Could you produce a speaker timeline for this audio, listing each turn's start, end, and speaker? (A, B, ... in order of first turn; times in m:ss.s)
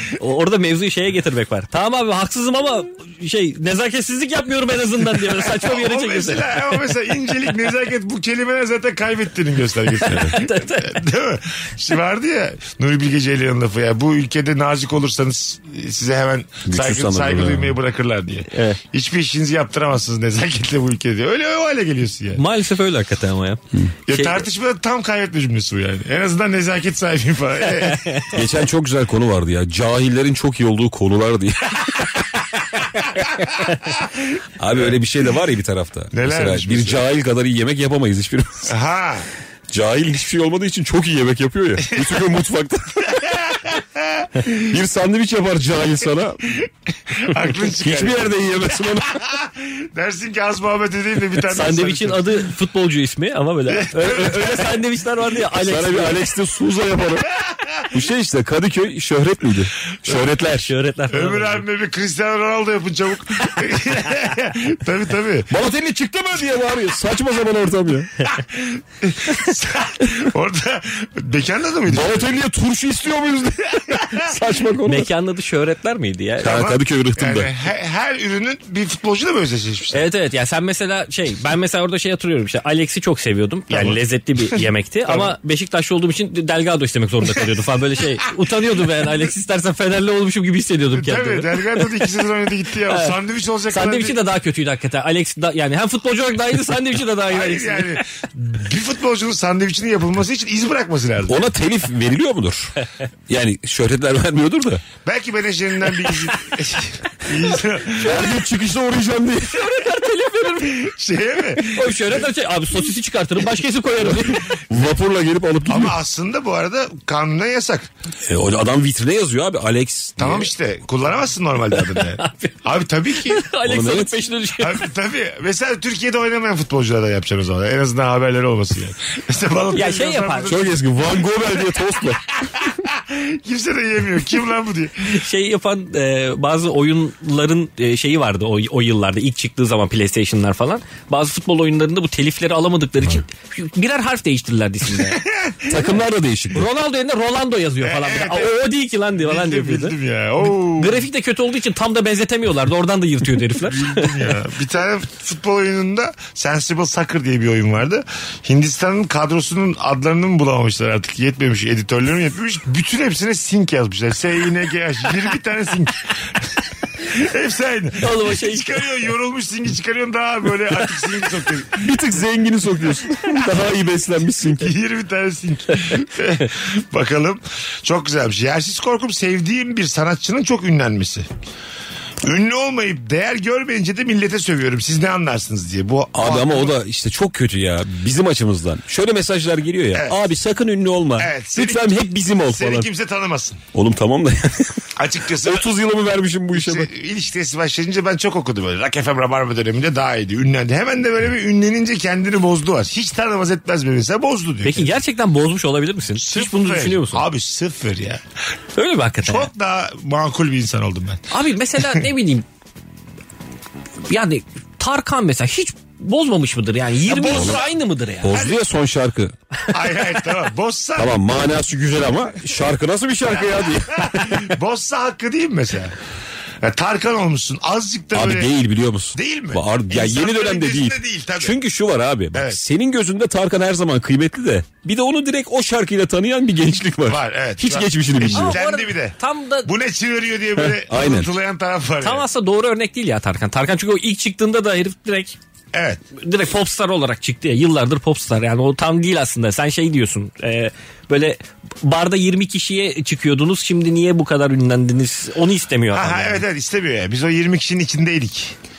0:00.2-0:06.6 A
0:05.2-0:22.4 B
0:10.0-0:11.0 A
0:16.7-0:17.7 C
0:18.5-0:18.8 A
0:22.3-0:24.4 A
0:24.1-0:28.2 B
0:27.8-0:28.3 A
0:28.3-0:32.2 C
0:34.0-0:34.9 B
0:34.6-0:38.7 C
0:36.1-0:37.0 B
0:38.7-0:39.3 B
0:39.7-0:43.3 C
0:43.1-0:44.6 B
0:44.5-0:46.6 C
0:46.6-0:52.4 B
0:47.7-0:49.2 C
0:51.5-0:56.2 A
0:53.7-0:54.8 B
0:55.5-0:57.3 C
0:57.8-1:00.7 C
1:00.6-1:01.6 A
1:01.1-1:05.5 B
1:05.5-1:08.3 C
1:08.3-1:12.4 B
1:11.9-1:15.1 C
1:13.9-1:14.3 B
1:14.8-1:16.6 A
1:16.4-1:17.5 C
1:16.4-1:20.1 B
1:19.9-1:31.9 A
1:23.7-1:24.0 B
1:24.5-1:25.3 B
1:30.9-1:34.2 B
1:33.7-1:38.0 A
1:37.3-1:41.4 B
1:41.3-1:42.8 C
1:43.3-1:44.8 C
1:45.0-1:48.2 B
1:48.0-1:48.3 A
1:48.0-1:50.0 C
1:49.5-1:50.8 A
1:50.6-1:52.2 B
1:51.6-1:54.5 A
1:54.3-1:56.0 C
1:55.7-1:57.9 B
1:58.3-2:00.5 C
2:00.2-2:03.4 B
2:02.0-2:02.5 A
2:03.2-2:04.8 A
2:03.6-2:04.3 C
2:04.6-2:11.2 B
2:09.7-2:10.5 A
2:10.4-2:12.4 C
2:12.6-2:15.1 B
2:15.0-2:25.2 A
2:25.0-2:25.7 B
2:25.7-2:26.6 C
2:26.5-2:34.1 A
2:27.8-2:28.6 B
2:29.2-2:31.0 B
2:33.6-2:46.0 B
2:47.0-2:51.9 B
2:48.0-2:48.8 A
2:51.8-2:54.7 C
2:54.5-3:01.3 B
3:02.2-3:06.7 B
3:06.1-3:12.9 C
3:11.2-3:13.6 B
3:13.7-3:14.8 C
3:15.0-3:15.6 B
3:15.4-3:16.9 C
3:16.5-3:24.9 B
3:24.6-3:27.2 A
3:26.2-3:28.2 B
3:28.8-3:29.5 A
3:29.2-3:31.3 B
3:31.3-3:32.4 A
3:34.1-3:38.3 A
3:37.0-3:37.7 B
3:37.3-3:37.6 C
3:38.2-3:39.3 C
3:38.3-3:38.6 B
3:39.7-3:41.5 B
3:41.0-3:44.5 C
3:43.9-3:45.9 B
3:46.6-3:48.5 B
3:48.1-3:58.6 C
3:49.1-3:51.6 B
3:52.3-3:52.6 B
3:57.1-4:02.2 B
3:58.3-3:59.7 A
4:00.8-4:01.3 C
4:02.0-4:05.4 A
4:05.7-4:06.0 B
4:06.2-4:16.4 A
4:15.9-4:18.6 B